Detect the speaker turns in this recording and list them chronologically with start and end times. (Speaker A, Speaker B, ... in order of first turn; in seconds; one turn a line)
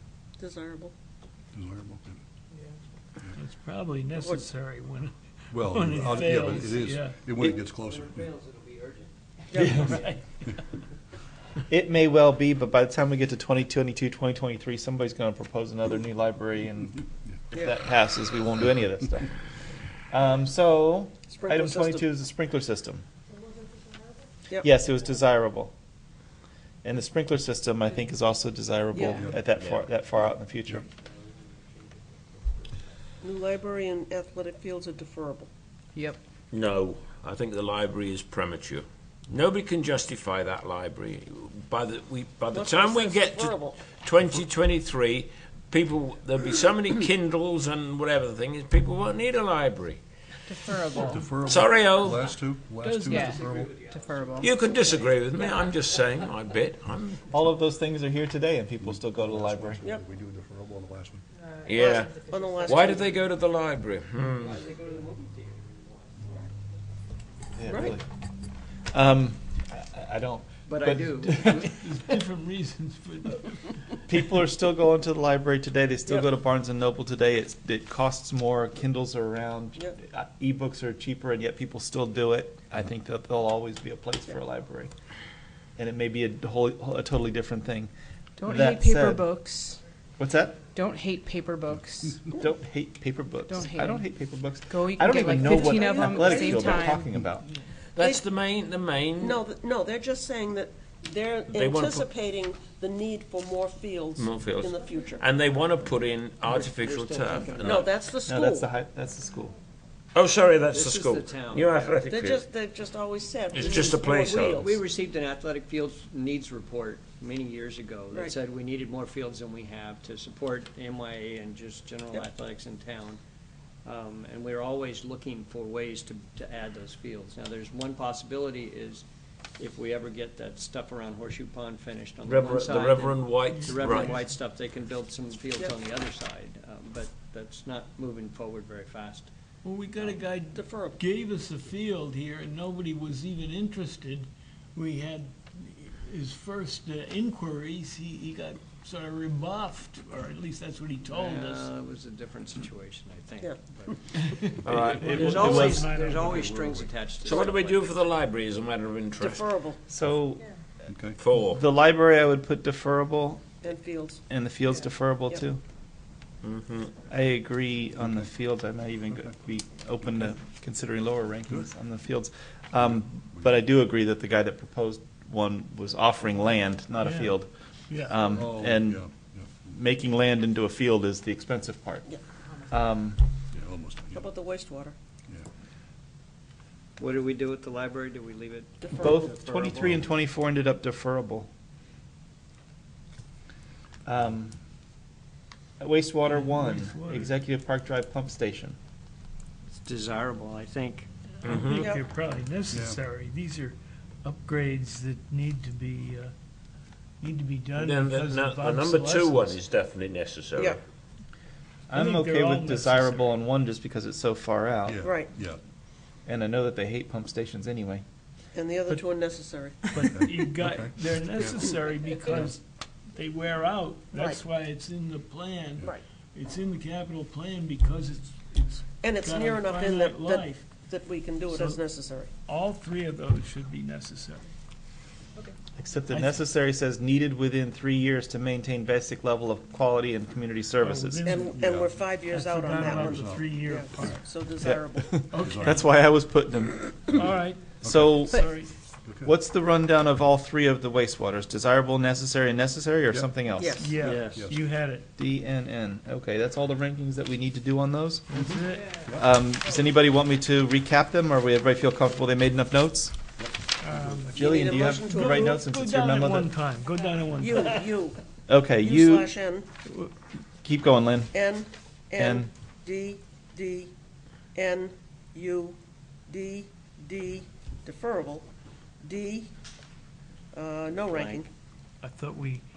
Speaker A: 0.4-0.9
Speaker B: 1.5-2.2
Speaker C: 3.4-7.2
Speaker A: 4.2-4.5
Speaker B: 5.5-8.3
Speaker D: 7.4-7.6
Speaker E: 7.5-9.1
Speaker A: 9.5-9.9
Speaker C: 9.5-10.6
Speaker D: 11.7-19.3
Speaker D: 20.1-23.0
Speaker A: 21.3-22.1
Speaker D: 24.6-25.7
Speaker D: 26.8-30.9
Speaker A: 28.9-29.2
Speaker F: 29.6-29.9
Speaker A: 33.2-35.5
Speaker F: 36.5-50.0
Speaker A: 42.5-43.8
Speaker G: 50.5-51.3
Speaker B: 51.0-53.8
Speaker F: 51.4-52.2
Speaker E: 52.9-55.8
Speaker G: 53.0-54.5
Speaker F: 54.4-57.3
Speaker D: 57.3-59.8
Speaker B: 58.8-61.2
Speaker F: 61.7-64.6
Speaker A: 61.7-63.2
Speaker E: 64.4-65.9
Speaker D: 67.6-68.0
Speaker A: 67.7-68.0
Speaker D: 68.9-71.7
Speaker E: 70.7-71.7
Speaker C: 71.3-73.7
Speaker D: 74.1-84.9
Speaker D: 85.8-87.9
Speaker G: 88.4-89.8
Speaker D: 88.4-89.3
Speaker D: 90.2-90.7
Speaker G: 90.7-92.3
Speaker D: 92.3-97.5
Speaker G: 93.5-94.1
Speaker G: 94.7-97.1
Speaker A: 95.3-96.9
Speaker F: 98.0-99.4
Speaker A: 98.0-98.3
Speaker A: 99.2-105.2
Speaker F: 101.5-102.1
Speaker F: 104.2-107.9
Speaker E: 106.5-107.9
Speaker A: 107.6-108.7
Speaker D: 108.3-109.6
Speaker F: 110.1-112.5
Speaker E: 110.7-111.8
Speaker A: 112.1-114.8
Speaker F: 113.5-114.7
Speaker E: 113.6-123.2
Speaker E: 123.8-129.1
Speaker E: 129.6-139.3
Speaker F: 132.3-134.2
Speaker C: 133.5-134.2
Speaker C: 139.6-151.7
Speaker A: 140.5-141.0
Speaker E: 151.1-154.4
Speaker C: 154.2-156.5
Speaker F: 154.6-155.6
Speaker B: 154.7-156.9
Speaker E: 154.9-158.1
Speaker D: 155.2-155.8
Speaker F: 157.2-159.5
Speaker A: 159.2-159.8
Speaker D: 159.9-160.5
Speaker B: 160.9-161.2
Speaker F: 161.2-161.6
Speaker D: 161.4-163.6
Speaker A: 163.6-164.2
Speaker D: 164.3-165.6
Speaker F: 166.4-166.9
Speaker D: 167.1-179.0
Speaker B: 168.0-168.3
Speaker B: 172.8-173.7
Speaker C: 177.0-178.4
Speaker B: 178.3-179.7
Speaker D: 179.7-182.1
Speaker D: 182.7-183.2
Speaker B: 183.5-184.3
Speaker A: 184.1-184.9
Speaker E: 187.0-190.1
Speaker A: 188.8-189.1
Speaker D: 189.0-191.5
Speaker D: 194.1-194.6
Speaker D: 195.8-198.8
Speaker C: 196.2-197.3
Speaker E: 199.7-201.1
Speaker F: 201.4-201.9
Speaker C: 201.4-206.3
Speaker A: 201.6-202.1
Speaker B: 202.7-203.0
Speaker C: 207.2-209.6
Speaker F: 207.8-210.8
Speaker D: 211.9-215.1
Speaker C: 211.9-213.4
Speaker B: 214.9-215.6
Speaker A: 215.0-215.3
Speaker D: 216.3-218.0
Speaker A: 218.5-219.9
Speaker C: 219.9-222.6
Speaker B: 220.1-221.7
Speaker C: 223.2-230.7
Speaker A: 224.1-224.4
Speaker A: 229.0-232.3
Speaker C: 231.5-231.8
Speaker C: 232.5-234.5
Speaker D: 235.8-241.5
Speaker C: 236.1-236.4
Speaker C: 240.8-241.6
Speaker A: 241.2-245.2
Speaker B: 241.5-242.2
Speaker C: 242.2-244.2
Speaker B: 242.8-244.1
Speaker D: 244.6-248.5
Speaker C: 245.3-245.8
Speaker B: 245.3-245.9
Speaker C: 247.2-248.7
Speaker B: 247.8-248.2
Speaker G: 248.2-248.5
Speaker B: 249.1-249.3
Speaker D: 249.2-253.8
Speaker A: 253.6-254.0
Speaker C: 253.7-255.1
Speaker E: 254.0-254.4
Speaker B: 254.2-254.6
Speaker D: 255.2-258.5
Speaker C: 258.3-259.0
Speaker B: 259.0-259.3
Speaker D: 259.1-263.2
Speaker B: 263.4-264.3
Speaker C: 263.8-268.0
Speaker A: 264.3-265.6
Speaker D: 264.3-266.5
Speaker A: 267.3-268.2
Speaker D: 268.5-269.3
Speaker A: 268.8-269.7
Speaker D: 270.6-271.4
Speaker A: 271.3-273.9
Speaker D: 272.2-272.5
Speaker A: 274.5-278.5
Speaker A: 279.0-279.5
Speaker A: 280.5-281.5
Speaker E: 281.1-281.4
Speaker C: 282.0-282.6